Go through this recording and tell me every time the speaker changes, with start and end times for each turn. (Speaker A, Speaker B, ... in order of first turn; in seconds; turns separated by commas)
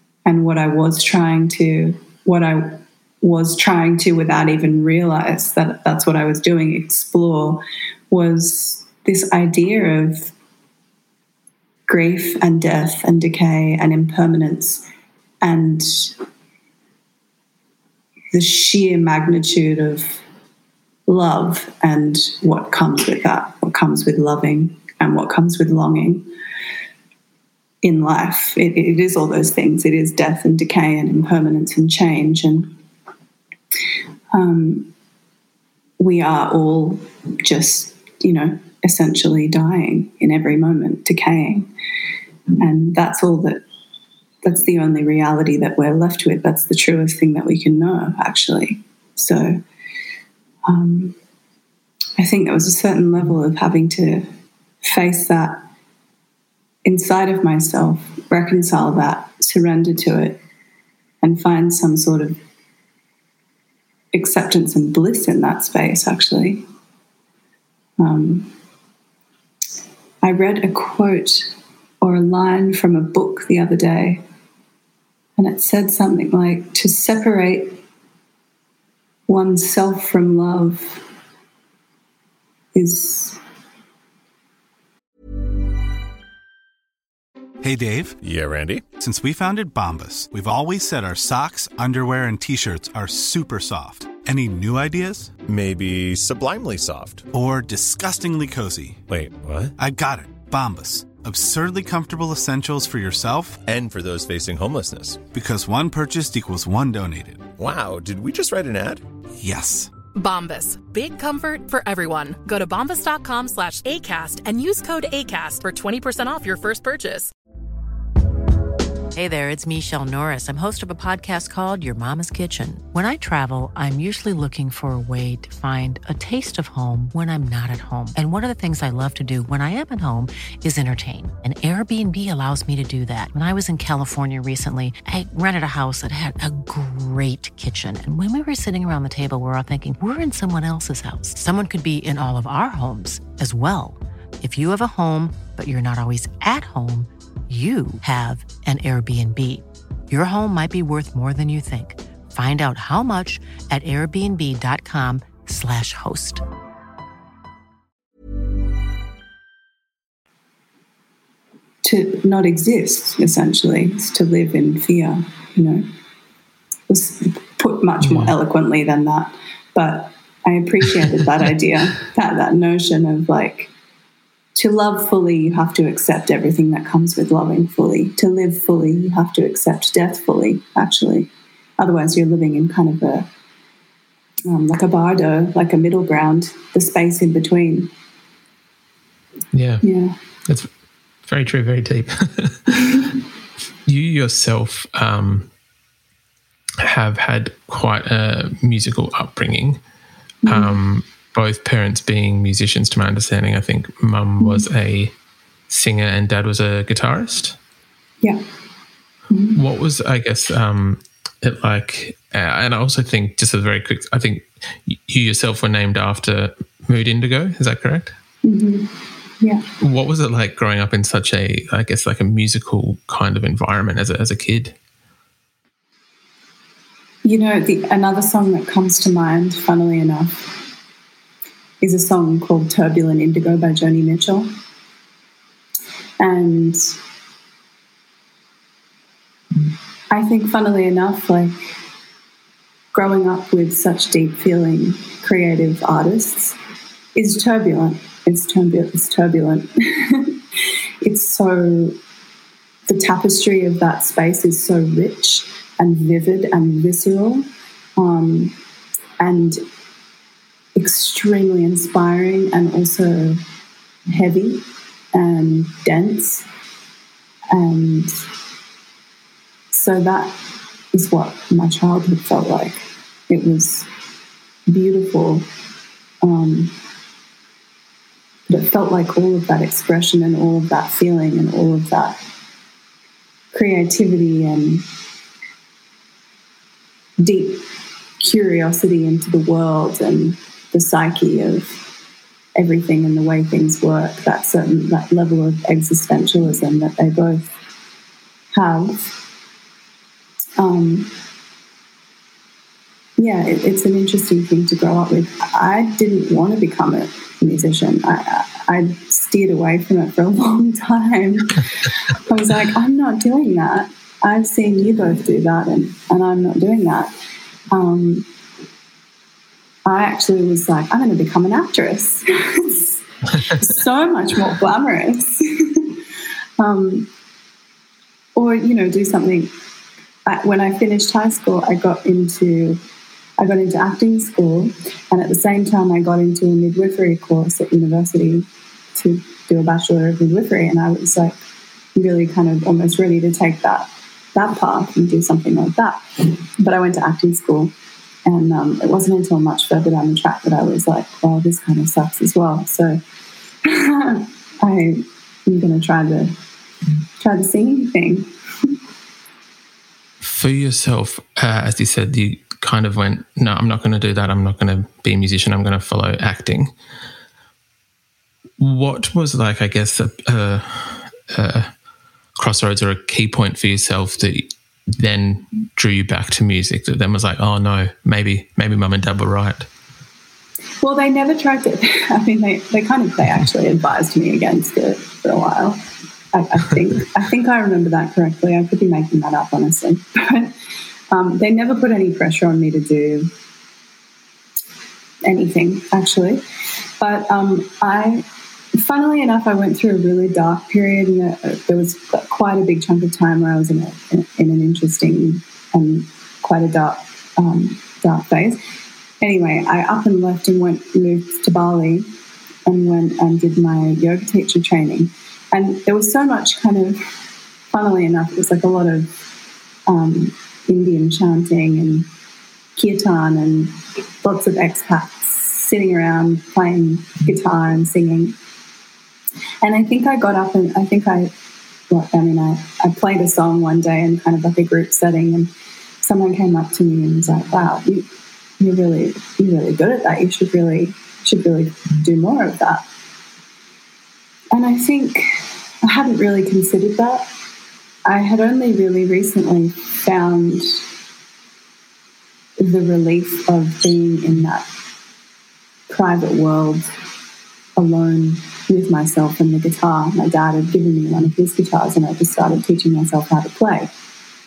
Speaker A: 0.2-10.3, Speaker A: 11.9-14.8, Speaker A: 15.4-16.1, Speaker A: 18.3-20.2, Speaker A: 21.1-26.3, Speaker A: 27.8-32.7, Speaker A: 34.3-34.9, Speaker A: 36.0-41.7, Speaker A: 42.6-43.6, Speaker A: 44.4-49.6, Speaker A: 50.6-51.2, Speaker A: 52.2-54.3, Speaker A: 54.9-55.6, Speaker A: 56.9-60.4, Speaker A: 61.2-62.4, Speaker A: 64.1-66.7, Speaker A: 68.0-68.5, Speaker A: 70.2-71.5, Speaker A: 72.0-74.2, Speaker A: 75.4-77.8, Speaker A: 79.3-81.0, Speaker A: 82.7-83.4, Speaker B: 87.6-88.2, Speaker C: 88.2-88.9, Speaker B: 89.0-95.3, Speaker C: 95.5-97.3, Speaker B: 97.3-99.0, Speaker C: 99.1-99.7, Speaker B: 99.8-103.6, Speaker C: 103.6-105.2, Speaker B: 105.3-107.5, Speaker C: 107.6-109.1, Speaker B: 109.4-109.9, Speaker D: 110.2-117.3, Speaker E: 119.2-156.4, Speaker A: 161.8-165.9, Speaker A: 166.9-173.7, Speaker F: 168.0-168.3, Speaker A: 174.6-183.3, Speaker A: 184.5-187.9, Speaker F: 189.5-189.9, Speaker A: 189.8-190.2, Speaker F: 191.2-193.1, Speaker A: 192.7-193.1, Speaker F: 193.9-195.5, Speaker F: 196.8-199.8, Speaker A: 200.4-200.8, Speaker F: 200.5-205.1, Speaker A: 204.4-204.7, Speaker F: 205.7-207.6, Speaker A: 209.3-209.6, Speaker F: 209.6-218.2, Speaker A: 218.4-219.6, Speaker F: 219.8-224.8, Speaker A: 227.2-230.7, Speaker A: 231.8-234.5, Speaker A: 236.2-236.9, Speaker A: 240.1-241.7, Speaker A: 242.9-246.6, Speaker A: 247.2-250.4, Speaker A: 251.0-252.0, Speaker A: 252.9-258.6, Speaker A: 259.2-259.6, Speaker A: 260.8-263.4, Speaker A: 264.1-266.5, Speaker A: 267.5-268.2, Speaker A: 269.7-270.4, Speaker A: 270.9-273.9, Speaker A: 274.7-275.5, Speaker A: 276.2-276.7, Speaker A: 278.5-282.2, Speaker A: 283.5-284.9, Speaker A: 287.2-287.6, Speaker A: 288.2-291.8, Speaker A: 292.6-297.6, Speaker A: 298.5-299.2, Speaker A: 300.6-301.1, Speaker A: 303.2-317.1, Speaker A: 317.7-318.3, Speaker A: 319.9-325.9, Speaker A: 326.6-327.1, Speaker A: 328.4-329.5, Speaker A: 330.3-332.8, Speaker A: 333.4-341.4, Speaker A: 341.9-347.7, Speaker A: 348.2-353.0, Speaker A: 353.6-356.3, Speaker A: 357.2-358.3, Speaker F: 360.2-366.7, Speaker F: 368.6-371.7, Speaker F: 372.4-379.7, Speaker A: 380.8-390.5, Speaker A: 391.1-393.3, Speaker A: 395.2-396.4, Speaker A: 397.0-408.6, Speaker A: 409.2-412.1, Speaker A: 412.7-417.0, Speaker A: 417.7-419.3, Speaker A: 419.9-422.1, Speaker A: 422.8-428.4, Speaker A: 429.6-431.3, Speaker A: 431.9-438.1, Speaker A: 438.6-442.8, Speaker A: 444.5-447.3, Speaker A: 448.1-450.8, Speaker A: 452.6-454.7, Speaker A: 455.9-456.9, Speaker A: 457.8-463.9